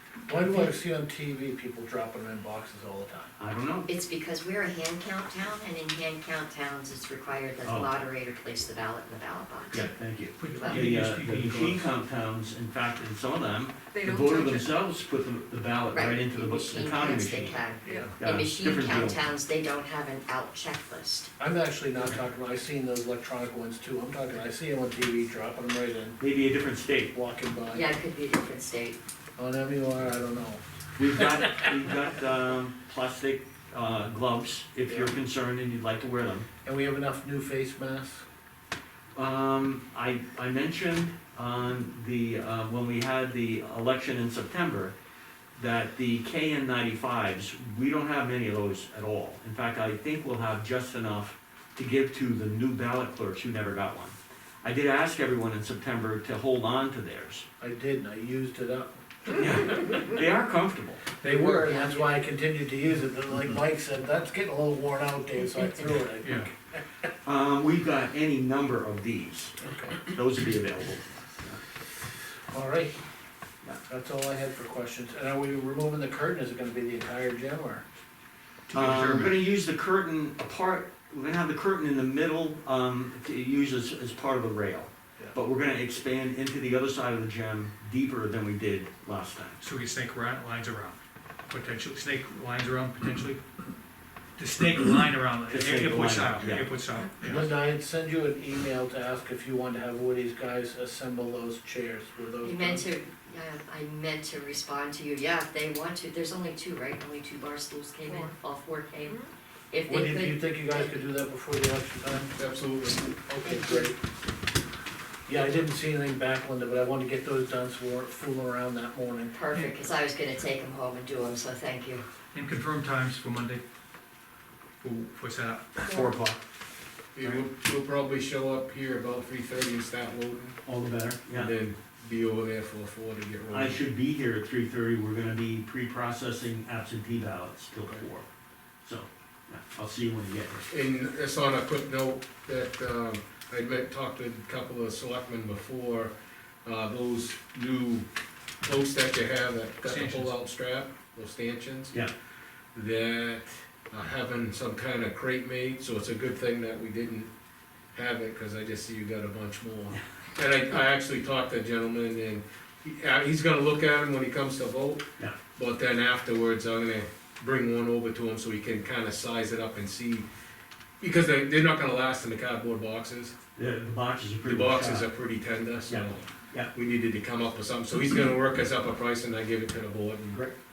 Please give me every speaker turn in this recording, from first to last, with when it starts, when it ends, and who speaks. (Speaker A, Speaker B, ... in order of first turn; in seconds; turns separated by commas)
Speaker A: 0.3-3.3, Speaker B: 3.4-3.9, Speaker C: 3.9-9.9, Speaker B: 7.6-7.9, Speaker B: 9.7-17.6, Speaker D: 10.4-11.9, Speaker C: 10.5-10.9, Speaker C: 13.9-14.6, Speaker C: 15.9-21.3, Speaker A: 17.9-18.1, Speaker B: 18.2-19.2, Speaker A: 21.4-26.2, Speaker B: 26.2-27.1, Speaker A: 27.1-27.9, Speaker C: 27.7-29.0, Speaker A: 29.4-30.6, Speaker B: 31.0-36.5, Speaker A: 34.9-35.1, Speaker A: 36.6-38.2, Speaker B: 39.1-44.9, Speaker B: 45.5-57.5, Speaker A: 57.6-59.4, Speaker B: 59.3-61.0, Speaker D: 61.2-61.7, Speaker A: 61.2-66.8, Speaker C: 61.7-62.1, Speaker D: 66.2-66.5, Speaker B: 67.2-71.6, Speaker A: 69.6-70.0, Speaker A: 72.5-73.0, Speaker A: 73.9-77.8, Speaker D: 78.7-79.4, Speaker B: 78.7-89.6, Speaker D: 89.6-91.0, Speaker D: 91.5-93.4, Speaker D: 94.4-97.5, Speaker B: 95.5-96.7, Speaker A: 97.2-102.8, Speaker C: 102.4-111.0, Speaker A: 109.9-112.3, Speaker E: 112.3-113.9, Speaker A: 113.3-114.0, Speaker A: 115.3-119.3, Speaker C: 119.3-122.0, Speaker D: 119.5-119.8, Speaker D: 122.3-123.6, Speaker D: 124.8-126.1, Speaker B: 125.8-126.4, Speaker E: 127.2-130.6, Speaker B: 130.6-131.5, Speaker E: 131.3-133.8, Speaker B: 133.5-138.2, Speaker B: 138.8-140.7, Speaker E: 140.7-146.1, Speaker E: 146.6-148.0, Speaker E: 148.6-151.9, Speaker D: 149.8-150.3, Speaker E: 152.7-157.3, Speaker E: 157.9-165.0, Speaker E: 165.6-170.3, Speaker E: 171.0-173.3, Speaker B: 173.6-175.1, Speaker E: 174.4-180.4, Speaker B: 175.9-176.7